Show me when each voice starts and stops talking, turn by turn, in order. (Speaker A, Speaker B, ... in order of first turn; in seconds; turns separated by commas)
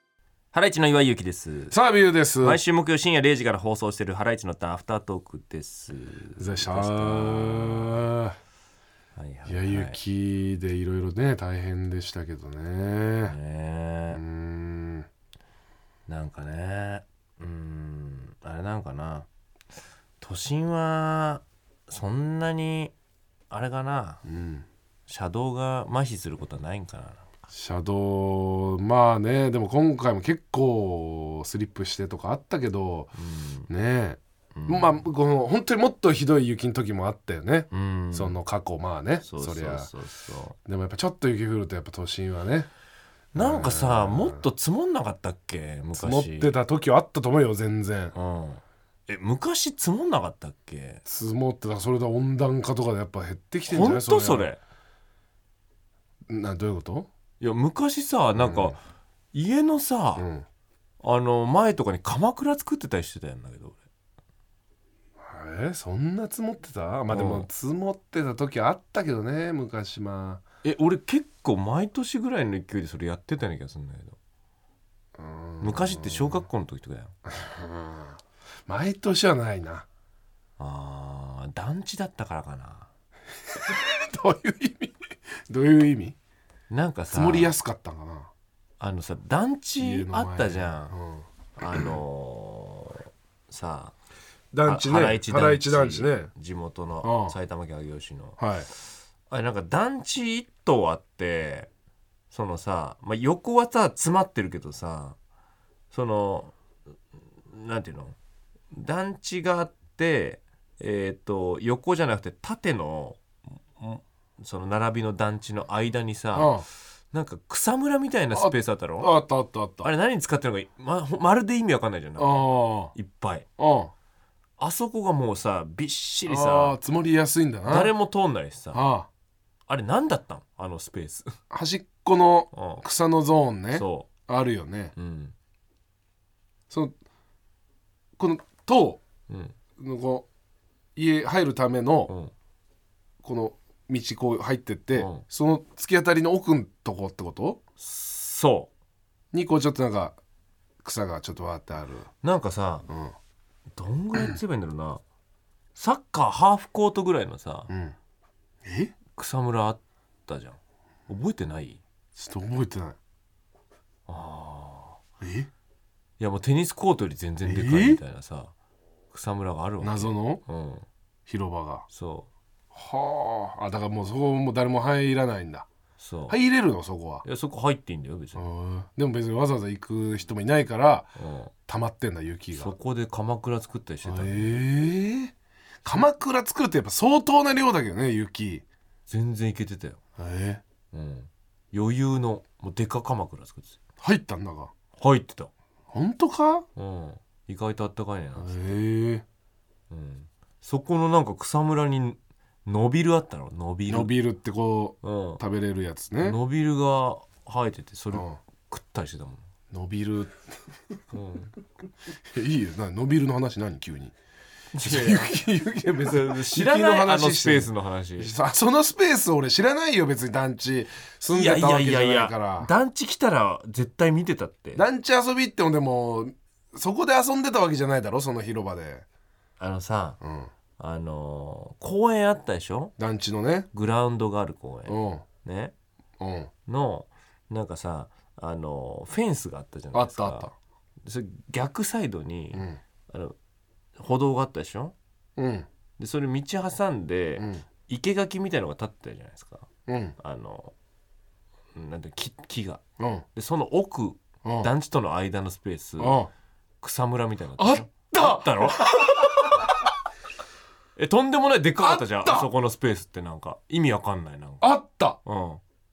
Speaker A: 0.5-1.8, Speaker B: 1.7-2.6, Speaker A: 2.4-8.1, Speaker B: 6.4-8.4, Speaker A: 9.1-10.0, Speaker B: 9.5-13.3, Speaker A: 13.3-14.2, Speaker B: 14.1-15.1, Speaker A: 16.1-19.3, Speaker A: 20.2-22.9, Speaker A: 23.5-24.2, Speaker B: 24.2-24.7, Speaker A: 25.1-27.3, Speaker B: 27.5-33.1, Speaker A: 33.2-33.7, Speaker B: 33.7-39.9, Speaker A: 34.5-35.0, Speaker A: 37.7-38.4, Speaker A: 39.2-40.5, Speaker B: 40.6-42.7, Speaker A: 43.3-46.6, Speaker B: 43.3-44.5, Speaker B: 46.0-48.1, Speaker A: 48.1-51.0, Speaker B: 51.0-54.5, Speaker A: 53.7-54.6, Speaker B: 56.3-57.1, Speaker A: 57.4-58.8, Speaker B: 58.3-58.8, Speaker A: 59.3-60.3, Speaker B: 60.1-60.5, Speaker A: 61.0-63.8, Speaker B: 65.2-70.4, Speaker A: 67.1-67.5, Speaker A: 70.6-74.2, Speaker B: 75.2-76.5, Speaker A: 75.6-77.1, Speaker B: 77.3-79.9, Speaker A: 80.6-82.9, Speaker B: 83.5-86.2, Speaker A: 86.7-87.5, Speaker B: 87.1-88.3, Speaker A: 88.8-91.0, Speaker B: 89.8-91.9, Speaker A: 91.6-94.0, Speaker B: 94.5-96.3, Speaker A: 94.7-101.7, Speaker B: 97.0-97.3, Speaker B: 98.4-98.7, Speaker A: 102.3-105.2, Speaker A: 105.9-106.5, Speaker A: 107.4-108.2, Speaker A: 108.7-113.2, Speaker A: 113.8-119.1, Speaker B: 116.3-116.7, Speaker B: 118.3-119.9, Speaker A: 119.8-123.5, Speaker B: 122.2-122.9, Speaker B: 123.6-123.9, Speaker A: 124.6-126.8, Speaker B: 126.3-127.9, Speaker A: 127.7-128.8, Speaker B: 128.7-129.1, Speaker A: 129.7-131.3, Speaker B: 131.5-134.9, Speaker A: 132.5-132.8, Speaker A: 133.7-134.1, Speaker A: 135.0-135.3, Speaker B: 136.7-136.9, Speaker B: 138.2-139.0, Speaker A: 139.3-139.6, Speaker B: 139.8-140.3, Speaker B: 141.0-142.1, Speaker B: 143.2-147.6, Speaker A: 144.9-145.2, Speaker A: 147.8-148.7, Speaker B: 149.3-150.2, Speaker B: 150.8-152.1, Speaker A: 152.2-152.9, Speaker B: 152.9-153.2, Speaker A: 153.7-155.0, Speaker A: 155.8-157.7, Speaker B: 157.7-158.0, Speaker B: 158.6-158.9, Speaker A: 159.1-161.8, Speaker B: 162.2-163.0, Speaker A: 164.1-165.0, Speaker B: 165.2-165.5, Speaker A: 166.2-168.5, Speaker B: 167.4-168.0, Speaker A: 169.1-170.9, Speaker B: 169.8-170.4, Speaker B: 171.3-171.8, Speaker A: 171.9-172.3, Speaker B: 172.7-175.7, Speaker A: 176.0-176.4, Speaker B: 176.3-177.2, Speaker A: 177.2-178.4, Speaker B: 178.4-181.1, Speaker A: 181.2-181.5, Speaker B: 181.7-182.7, Speaker A: 182.5-184.6, Speaker B: 184.1-188.7, Speaker A: 189.1-190.0, Speaker B: 190.2-190.6, Speaker A: 190.9-193.8, Speaker B: 194.0-194.7, Speaker A: 195.0-195.5, Speaker B: 195.9-196.7, Speaker A: 196.8-198.6, Speaker B: 198.4-199.2, Speaker A: 199.9-204.1, Speaker B: 203.9-206.4, Speaker A: 205.0-205.4, Speaker A: 206.2-209.4, Speaker B: 208.1-208.4, Speaker B: 209.7-210.9, Speaker A: 211.1-211.5, Speaker B: 212.2-214.2, Speaker A: 214.7-215.4, Speaker B: 214.8-222.7, Speaker A: 216.0-218.3, Speaker A: 221.3-224.8, Speaker B: 224.8-229.1, Speaker A: 229.6-230.2, Speaker B: 230.2-230.5, Speaker A: 230.8-232.9, Speaker B: 233.0-233.7, Speaker A: 233.7-235.7, Speaker B: 234.9-235.2, Speaker B: 236.2-236.5, Speaker A: 236.7-240.5, Speaker B: 239.9-240.5, Speaker A: 241.0-243.4, Speaker B: 242.5-242.8, Speaker A: 244.0-244.9, Speaker B: 245.4-245.7, Speaker A: 246.0-249.7, Speaker B: 247.4-247.7, Speaker B: 249.9-250.2, Speaker A: 250.2-250.7, Speaker A: 251.8-252.8, Speaker B: 253.0-253.3, Speaker A: 253.3-256.2, Speaker B: 254.4-254.7, Speaker B: 256.0-256.3, Speaker A: 256.8-259.5, Speaker B: 257.6-259.9, Speaker A: 260.9-264.7, Speaker B: 261.8-262.5, Speaker B: 264.6-265.2, Speaker A: 265.2-265.6